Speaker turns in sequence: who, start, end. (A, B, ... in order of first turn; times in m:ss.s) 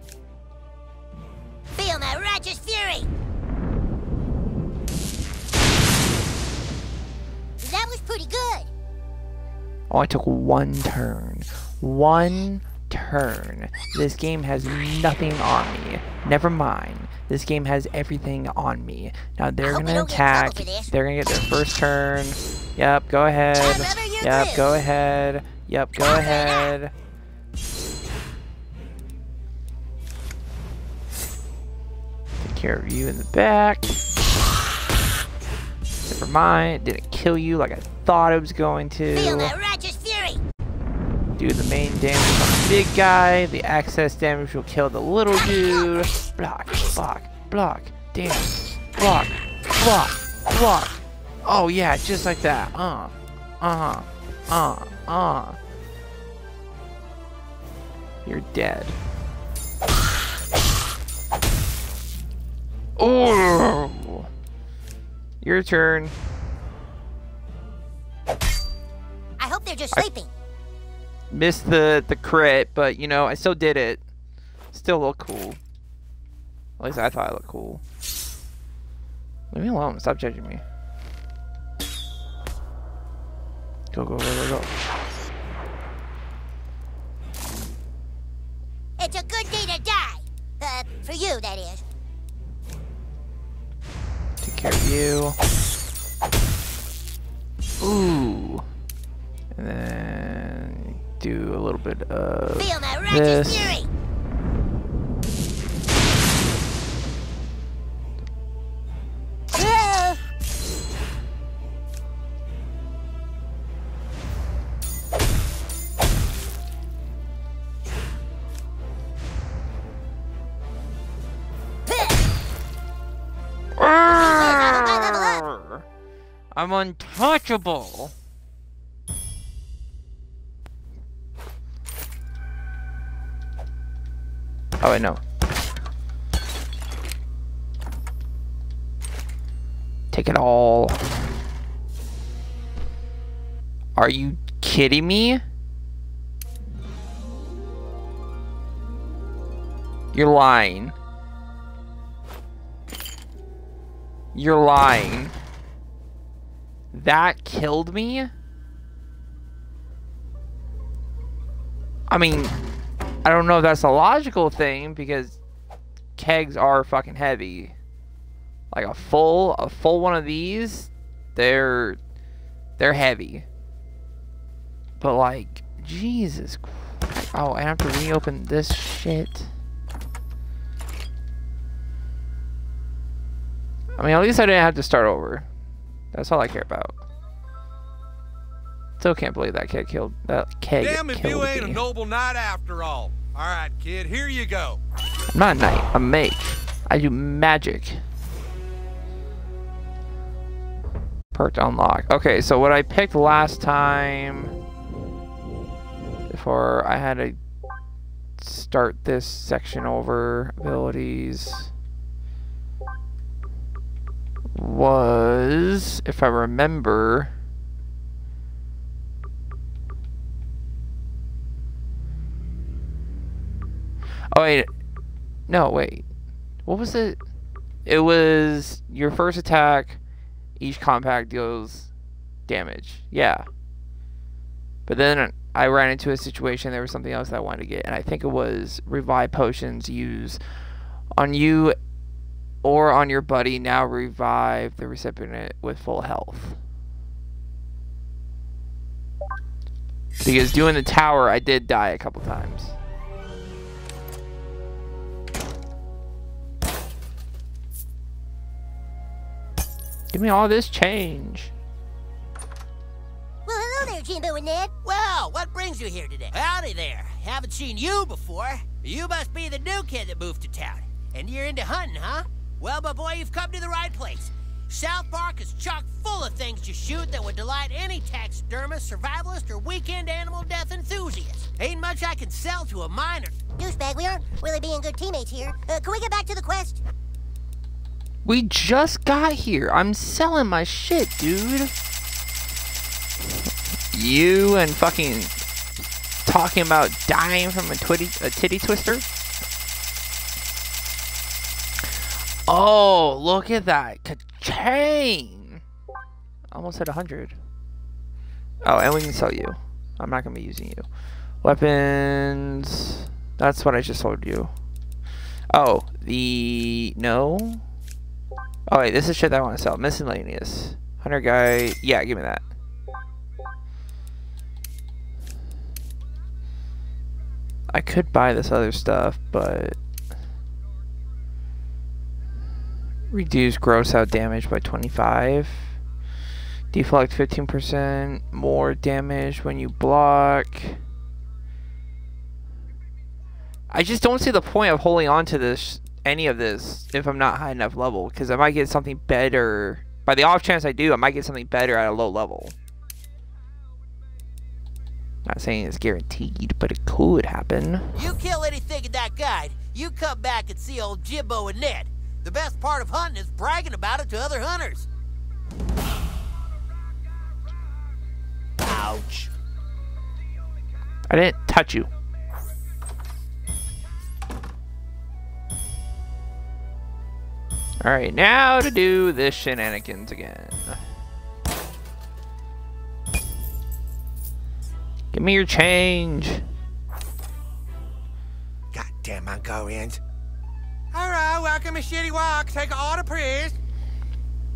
0:01.8-0:03.1 A
0:07.6-0:08.7 A
0:09.9-0:26.9 B
0:19.6-0:20.9 A
0:23.6-0:24.7 A
0:26.0-0:26.7 A
0:32.4-0:34.0 B
0:36.0-0:39.5 B
0:39.1-0:40.4 A
0:41.4-0:55.6 B
0:58.2-0:59.0 B
1:03.0-1:04.3 B
1:05.4-1:06.1 B
1:09.4-1:10.3 A
1:11.3-1:14.0 B
1:14.7-1:15.6 B
1:16.8-1:17.8 B
1:19.5-1:20.6 B
1:23.9-1:24.7 B
1:29.0-1:31.8 A
1:34.4-1:35.4 B
1:37.8-1:38.6 B
1:39.5-1:43.8 B
1:42.6-1:43.9 A
1:49.5-1:50.2 A
2:01.9-2:02.2 A
2:03.8-2:05.8 B
2:04.2-2:05.4 A
2:06.5-2:08.1 B
2:14.8-2:15.2 B
2:20.1-2:21.0 B
2:24.0-2:25.4 B
2:30.1-2:31.0 B
2:34.3-2:35.4 B
2:36.9-2:38.3 B
2:42.1-2:42.5 B
2:43.2-2:45.4 B
2:46.2-2:47.7 B
2:48.7-2:52.0 B
2:52.8-2:53.4 B
2:55.0-2:59.5 B
3:04.0-3:05.5 B
3:06.1-3:07.0 B
3:09.0-3:11.8 B
3:10.8-3:14.8 C
3:15.3-3:18.0 B
3:21.3-3:24.6 B
3:26.3-3:27.4 B
3:28.4-3:31.7 B
3:34.5-3:37.3 B
3:44.3-3:44.7 B
3:45.5-3:46.0 B
3:46.6-3:47.2 B
3:47.8-3:50.0 B
3:50.6-3:51.9 B
3:52.5-3:53.4 B
3:54.9-4:00.4 B
4:01.1-4:01.8 B
4:02.6-4:06.6 B
4:10.2-4:12.8 B
4:20.1-4:21.5 B
4:23.4-4:24.7 A
4:24.8-4:43.4 D
4:43.6-4:46.8 A
4:48.2-4:51.7 B
4:53.9-4:55.3 B
4:56.2-4:59.1 B
5:02.5-5:05.6 B
5:06.5-5:07.4 B
5:08.6-5:10.8 B
5:11.4-5:14.5 B
5:15.5-5:17.6 B
5:18.7-5:22.4 B
5:27.7-5:29.8 B
5:33.1-5:35.7 B
5:36.7-5:40.8 B
5:43.7-5:52.5 B
5:55.2-5:58.1 B
5:57.9-6:04.9 D
6:08.6-6:09.3 D
6:11.1-6:11.9 B
6:17.8-6:20.8 B
6:25.1-6:26.4 B
6:28.7-6:30.0 E
6:30.9-6:33.6 E